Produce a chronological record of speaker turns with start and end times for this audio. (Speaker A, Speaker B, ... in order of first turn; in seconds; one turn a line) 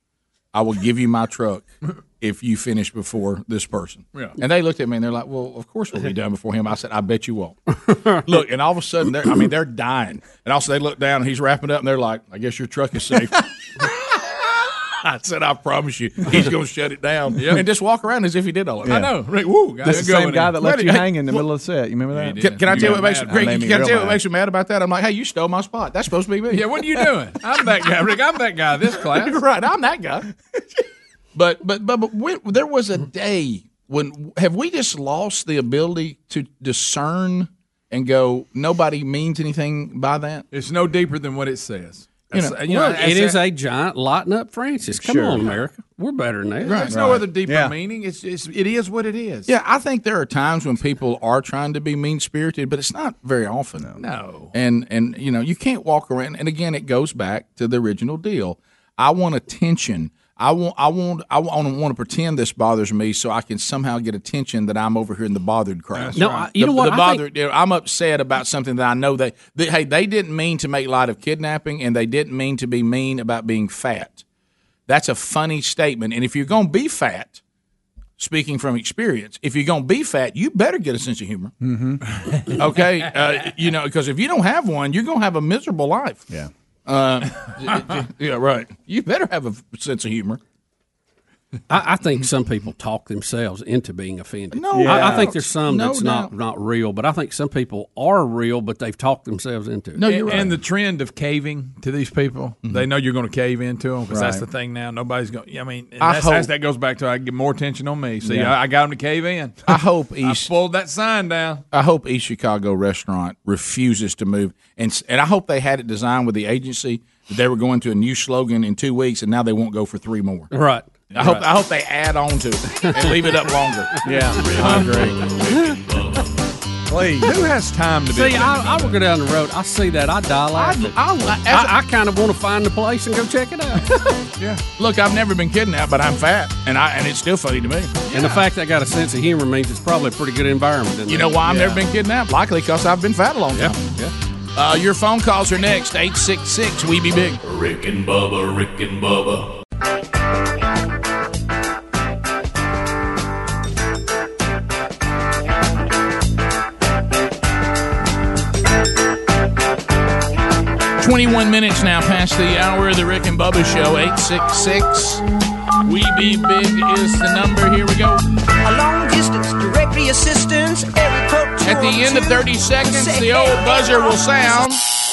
Speaker A: 0.5-1.7
Speaker A: 2.2-7.6
Speaker B: 7.8-8.2
Speaker A: 8.2-19.1
Speaker C: 17.4-17.6
Speaker D: 18.8-19.2
Speaker C: 18.9-20.6
Speaker D: 19.8-24.2
Speaker A: 20.6-21.1
Speaker C: 22.1-23.6
Speaker A: 22.4-26.9
Speaker C: 26.5-29.4
Speaker A: 29.1-30.3
Speaker A: 31.4-40.5
Speaker C: 40.5-43.4
Speaker A: 42.3-43.2
Speaker B: 42.7-46.9
Speaker D: 45.0-45.5
Speaker A: 46.7-47.1
Speaker C: 46.7-49.5
Speaker D: 46.9-47.8
Speaker A: 49.5-53.9
Speaker C: 54.0-54.5
Speaker A: 54.5-74.2
Speaker C: 65.9-66.5
Speaker B: 66.2-67.2
Speaker A: 74.9-77.4
Speaker A: 78.2-81.5
Speaker D: 81.6-82.0
Speaker A: 82.6-86.2
Speaker A: 86.9-90.4
Speaker B: 91.7-100.2
Speaker A: 94.5-96.3
Speaker D: 94.7-95.3
Speaker A: 100.0-100.6
Speaker C: 100.1-111.7
Speaker D: 104.1-104.5
Speaker A: 106.0-106.5
Speaker D: 108.2-108.6
Speaker A: 109.7-110.5
Speaker A: 111.7-120.5
Speaker B: 120.5-120.9
Speaker C: 121.1-121.4
Speaker A: 121.2-123.9
Speaker D: 124.0-125.2
Speaker E: 124.4-126.3
Speaker A: 124.6-125.0
Speaker D: 126.9-127.3
Speaker C: 127.2-129.0
Speaker B: 128.1-133.9
Speaker A: 130.6-131.7
Speaker A: 134.8-138.0
Speaker C: 138.1-138.4
Speaker B: 138.1-141.8
Speaker A: 141.1-143.9
Speaker A: 144.6-147.4
Speaker E: 147.4-149.5
Speaker A: 161.0-165.2
Speaker A: 165.8-168.2
Speaker F: 168.6-174.8
Speaker A: 171.6-174.8